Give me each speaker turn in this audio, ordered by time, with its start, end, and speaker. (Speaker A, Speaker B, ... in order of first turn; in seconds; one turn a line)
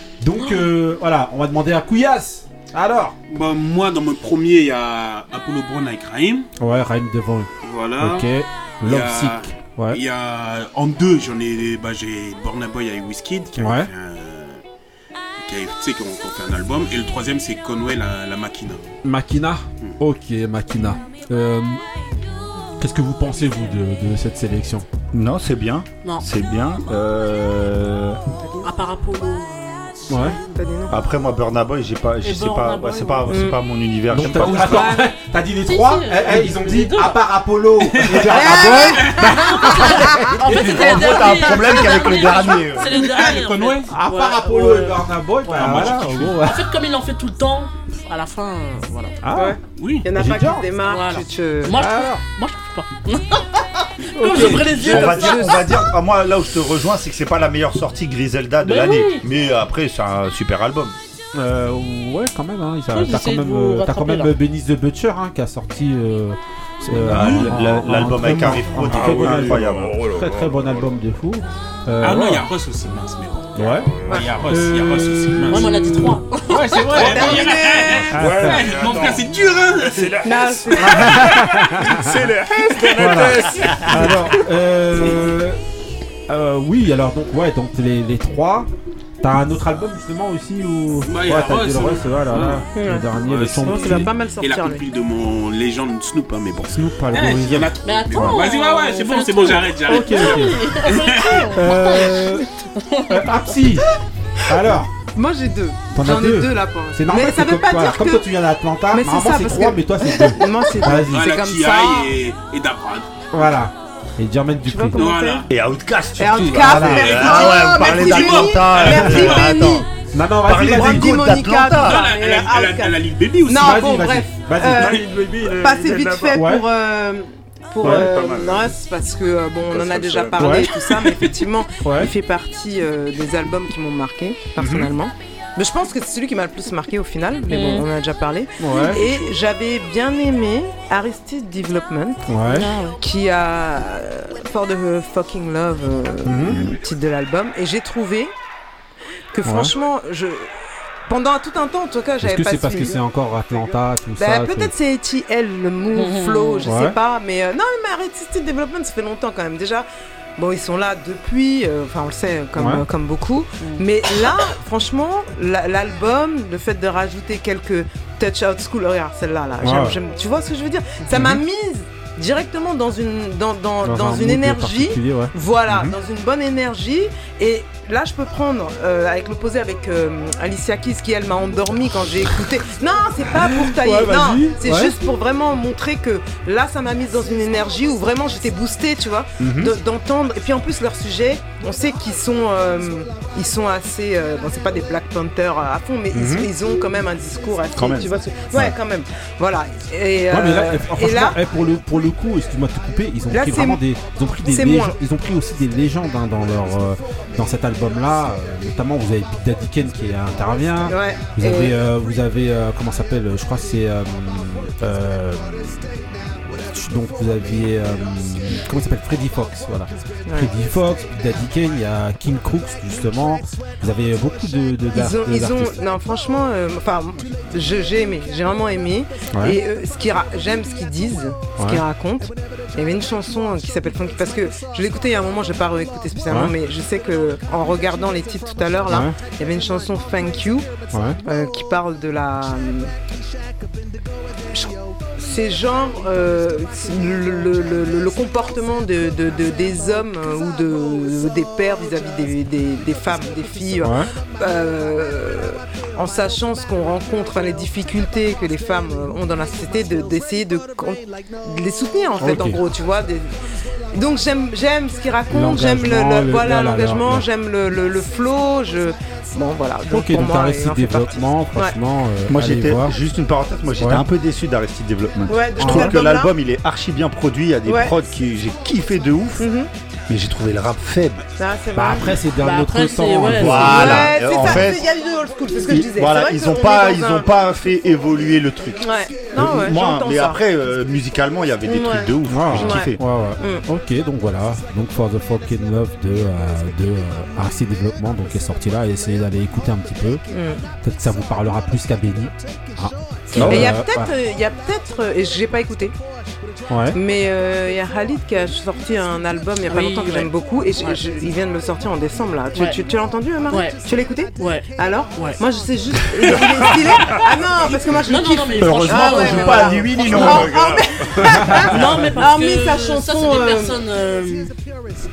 Speaker A: 0.2-3.2
Speaker B: 3.3-6.5
Speaker A: 6.6-10.0
Speaker B: 7.6-8.3
Speaker B: 8.8-14.6
Speaker A: 13.6-13.9
Speaker B: 15.4-18.8
Speaker A: 19.0-21.8
Speaker A: 22.8-24.9
Speaker C: 25.1-28.2
Speaker D: 28.6-30.4
Speaker A: 30.1-30.4
Speaker E: 30.5-31.0
Speaker C: 30.9-35.0
Speaker D: 32.2-33.5
Speaker E: 33.3-33.6
Speaker A: 34.1-41.0
Speaker E: 34.3-35.0
Speaker D: 35.7-37.2
Speaker B: 37.9-39.6
Speaker E: 38.2-39.3
Speaker D: 39.2-45.0
Speaker E: 39.9-40.3
Speaker C: 40.6-42.9
Speaker B: 42.9-43.9
Speaker A: 43.9-46.6
Speaker B: 45.5-46.4
Speaker D: 46.4-49.2
Speaker A: 49.2-49.6
Speaker E: 49.3-51.7
Speaker B: 49.8-50.1
Speaker A: 50.1-50.6
Speaker D: 50.9-53.6
Speaker A: 51.7-52.2
Speaker D: 54.2-55.8
Speaker A: 54.2-55.1
Speaker C: 54.7-61.0
Speaker E: 54.8-55.8
Speaker D: 58.6-59.3
Speaker A: 61.4-72.5
Speaker D: 62.9-64.3
Speaker B: 66.9-67.5
Speaker C: 67.1-70.0
Speaker F: 68.9-70.9
Speaker B: 72.0-81.2
Speaker A: 73.6-73.9
Speaker F: 73.6-74.3
Speaker A: 74.5-76.1
Speaker D: 75.5-77.2
Speaker E: 76.9-78.1
Speaker F: 78.0-84.1
Speaker A: 78.1-78.6
Speaker E: 80.2-81.3
Speaker A: 80.9-82.0
Speaker E: 82.5-83.8
Speaker B: 82.9-83.3
Speaker A: 83.0-85.6
Speaker A: 86.3-88.7
Speaker A: 89.2-94.1
Speaker B: 91.1-92.7
Speaker E: 92.8-93.1
Speaker B: 93.2-101.5
Speaker E: 93.6-94.9
Speaker A: 96.7-98.4
Speaker D: 97.8-102.1
Speaker A: 99.9-100.6
Speaker A: 101.5-102.5
Speaker D: 102.8-103.7
Speaker A: 103.1-103.9
Speaker A: 104.5-104.9
Speaker E: 105.2-108.3
Speaker A: 105.9-111.3
Speaker E: 108.9-112.1
Speaker B: 111.0-113.1
Speaker A: 113.3-115.1
Speaker E: 114.7-115.5
Speaker B: 114.9-115.5
Speaker C: 115.5-119.9
Speaker E: 116.2-119.9
Speaker A: 116.4-117.1
Speaker B: 116.6-119.7
Speaker A: 120.1-121.2
Speaker C: 120.4-122.1
Speaker E: 120.7-142.2
Speaker B: 121.8-124.0
Speaker A: 123.5-125.0
Speaker F: 124.8-126.5
Speaker A: 126.3-126.7
Speaker F: 127.8-128.8
Speaker A: 127.8-128.1
Speaker F: 129.7-130.7
Speaker A: 130.4-130.7
Speaker A: 131.8-132.1
Speaker A: 134.6-134.9
Speaker D: 137.5-137.9
Speaker A: 138.6-139.0
Speaker A: 142.3-142.7
Speaker D: 142.5-143.0
Speaker E: 143.0-148.3
Speaker A: 146.2-146.6
Speaker E: 149.3-150.5
Speaker A: 149.4-149.7
Speaker E: 151.1-153.0
Speaker A: 152.2-154.7
Speaker E: 154.2-201.4
Speaker D: 155.9-156.7
Speaker A: 156.7-157.0
Speaker A: 162.6-162.8
Speaker A: 169.6-170.0
Speaker A: 171.1-171.4
Speaker A: 173.8-175.9
Speaker A: 183.5-184.9
Speaker A: 189.4-189.7
Speaker A: 196.1-196.5
Speaker C: 197.8-198.7
Speaker A: 200.3-225.8
Speaker E: 203.3-203.8
Speaker E: 204.4-205.0
Speaker E: 210.9-211.8
Speaker E: 224.9-240.7
Speaker A: 229.3-229.6
Speaker A: 231.6-231.8
Speaker A: 238.9-239.2
Speaker A: 240.9-241.2
Speaker E: 241.2-242.9
Speaker E: 244.5-263.4
Speaker A: 262.2-262.6
Speaker E: 263.9-271.8
Speaker A: 265.3-267.3
Speaker A: 269.9-272.9
Speaker C: 272.3-279.5
Speaker A: 273.8-274.1
Speaker E: 275.3-276.3
Speaker A: 275.6-276.0
Speaker E: 277.7-277.9
Speaker E: 279.4-279.7
Speaker C: 280.1-281.2
Speaker E: 281.4-282.2
Speaker A: 281.8-284.6
Speaker D: 282.4-284.0
Speaker C: 283.3-284.8
Speaker E: 283.6-287.3
Speaker C: 285.6-293.0
Speaker E: 288.8-290.4
Speaker E: 291.6-293.6
Speaker A: 292.3-300.2
Speaker E: 300.3-300.6
Speaker A: 300.8-304.1
Speaker C: 303.3-303.7
Speaker E: 303.4-305.9
Speaker A: 306.7-307.0
Speaker E: 306.9-323.7
Speaker D: 309.7-310.3
Speaker D: 312.5-312.8
Speaker D: 313.5-313.8
Speaker D: 314.4-315.4
Speaker F: 316.2-317.3
Speaker D: 317.9-320.2
Speaker C: 318.6-320.6
Speaker F: 319.9-321.8
Speaker D: 321.7-324.5